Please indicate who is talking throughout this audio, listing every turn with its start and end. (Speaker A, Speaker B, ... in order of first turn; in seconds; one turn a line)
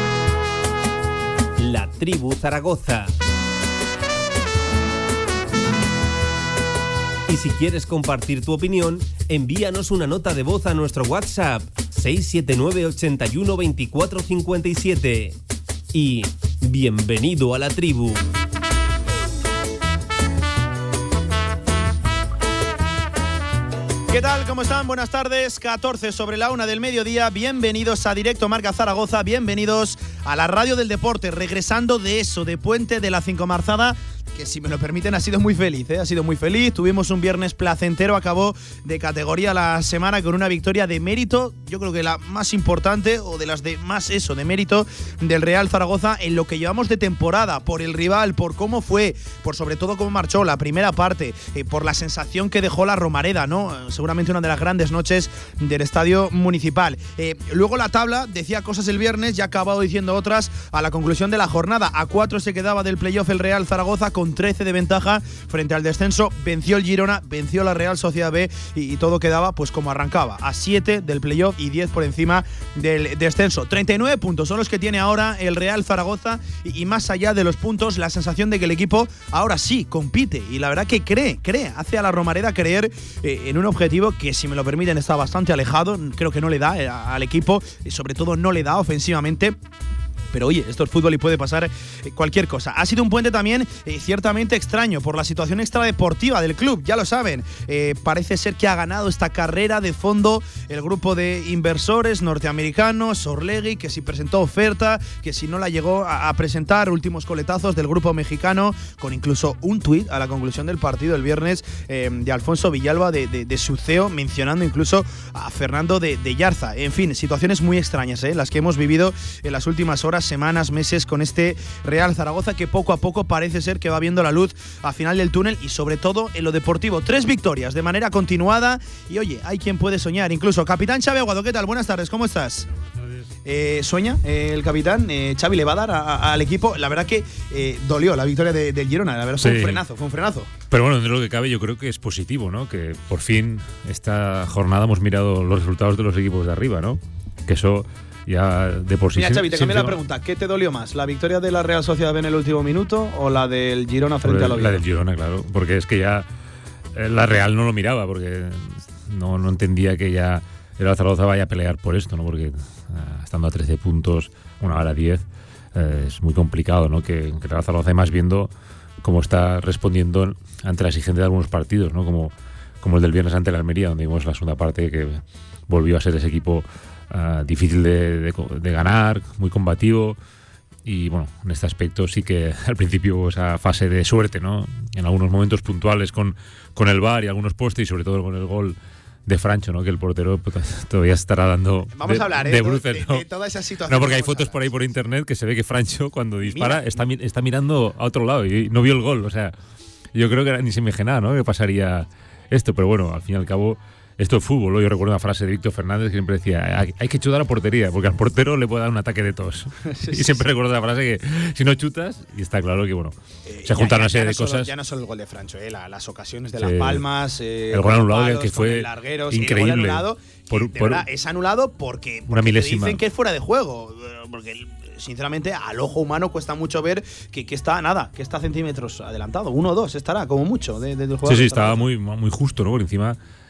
Speaker A: 1.6-3.1
Speaker A: 7.3-15.3
Speaker A: 15.9-18.3
Speaker B: 24.1-89.6
Speaker B: 90.3-132.7
Speaker B: 133.4-140.5
Speaker C: 139.4-139.8
Speaker C: 140.7-150.0
Speaker B: 149.2-154.8
Speaker C: 154.2-156.2
Speaker C: 156.9-165.2
Speaker C: 165.8-168.5
Speaker C: 169.0-180.2
Speaker C: 180.8-188.8
Speaker C: 189.3-193.2
Speaker B: 191.9-194.6
Speaker C: 193.9-199.5
Speaker B: 196.4-196.8
Speaker C: 200.2-214.7
Speaker B: 209.9-210.5
Speaker B: 213.5-231.8
Speaker C: 216.6-217.0
Speaker C: 217.7-221.0
Speaker C: 222.3-223.0
Speaker C: 231.3-233.2